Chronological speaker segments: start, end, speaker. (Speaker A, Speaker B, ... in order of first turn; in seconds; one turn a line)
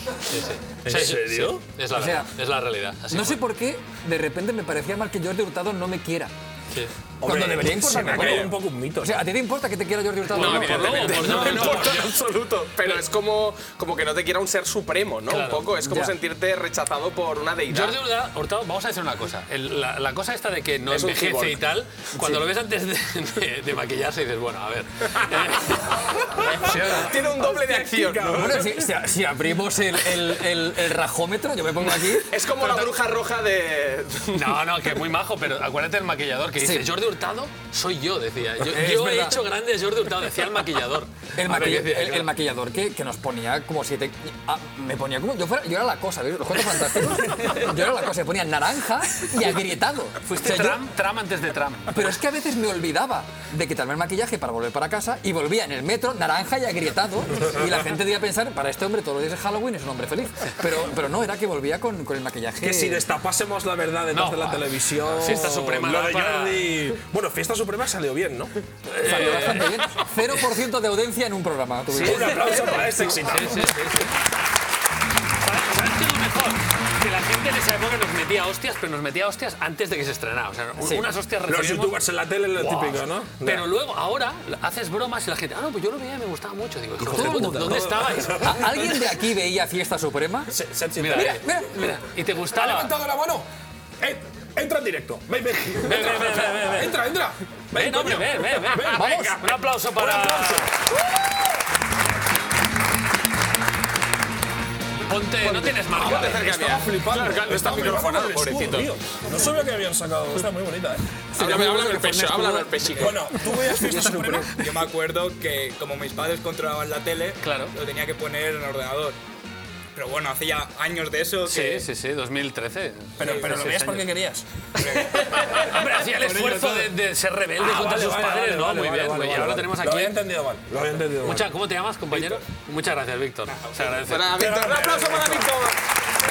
Speaker A: 0.3-3.4
Speaker B: 0.8-1.6
Speaker C: 1.9-2.3
Speaker C: 3.1-6.3
Speaker B: 7.2-9.3
Speaker C: 7.2-11.8
Speaker A: 10.3-12.2
Speaker D: 10.4-18.0
Speaker B: 10.5-11.8
Speaker A: 15.3-15.7
Speaker C: 15.8-16.1
Speaker A: 17.7-27.1
Speaker D: 20.9-21.6
Speaker C: 22.1-22.4
Speaker D: 26.4-28.7
Speaker B: 26.4-28.9
Speaker C: 28.2-32.4
Speaker D: 32.2-34.6
Speaker A: 34.3-42.3
Speaker C: 36.6-36.9
Speaker C: 38.6-39.4
Speaker C: 41.3-50.8
Speaker A: 50.2-52.1
Speaker C: 51.9-63.0
Speaker B: 62.6-68.5
Speaker A: 64.1-66.8
Speaker C: 68.9-72.8
Speaker A: 69.0-70.0
Speaker B: 71.9-73.9
Speaker A: 72.0-74.1
Speaker A: 75.4-82.0
Speaker C: 80.8-81.1
Speaker B: 81.5-83.7
Speaker A: 82.5-88.9
Speaker B: 87.0-88.8
Speaker C: 87.0-87.8
Speaker C: 88.4-90.5
Speaker B: 90.5-91.4
Speaker A: 91.0-92.9
Speaker C: 91.1-91.7
Speaker B: 92.5-93.5
Speaker B: 94.0-100.7
Speaker A: 95.8-96.9
Speaker A: 97.7-100.7
Speaker C: 98.9-99.4
Speaker A: 105.0-106.8
Speaker D: 105.5-108.9
Speaker B: 105.9-111.1
Speaker D: 111.3-113.3
Speaker C: 111.4-112.7
Speaker B: 112.9-114.6
Speaker C: 113.7-114.4
Speaker E: 114.5-119.2
Speaker A: 117.4-117.7
Speaker E: 119.9-121.8
Speaker A: 121.5-124.1
Speaker B: 123.2-126.9
Speaker A: 125.1-130.2
Speaker B: 127.6-131.5
Speaker A: 131.2-134.4
Speaker B: 132.1-132.4
Speaker B: 133.6-135.7
Speaker D: 134.0-135.8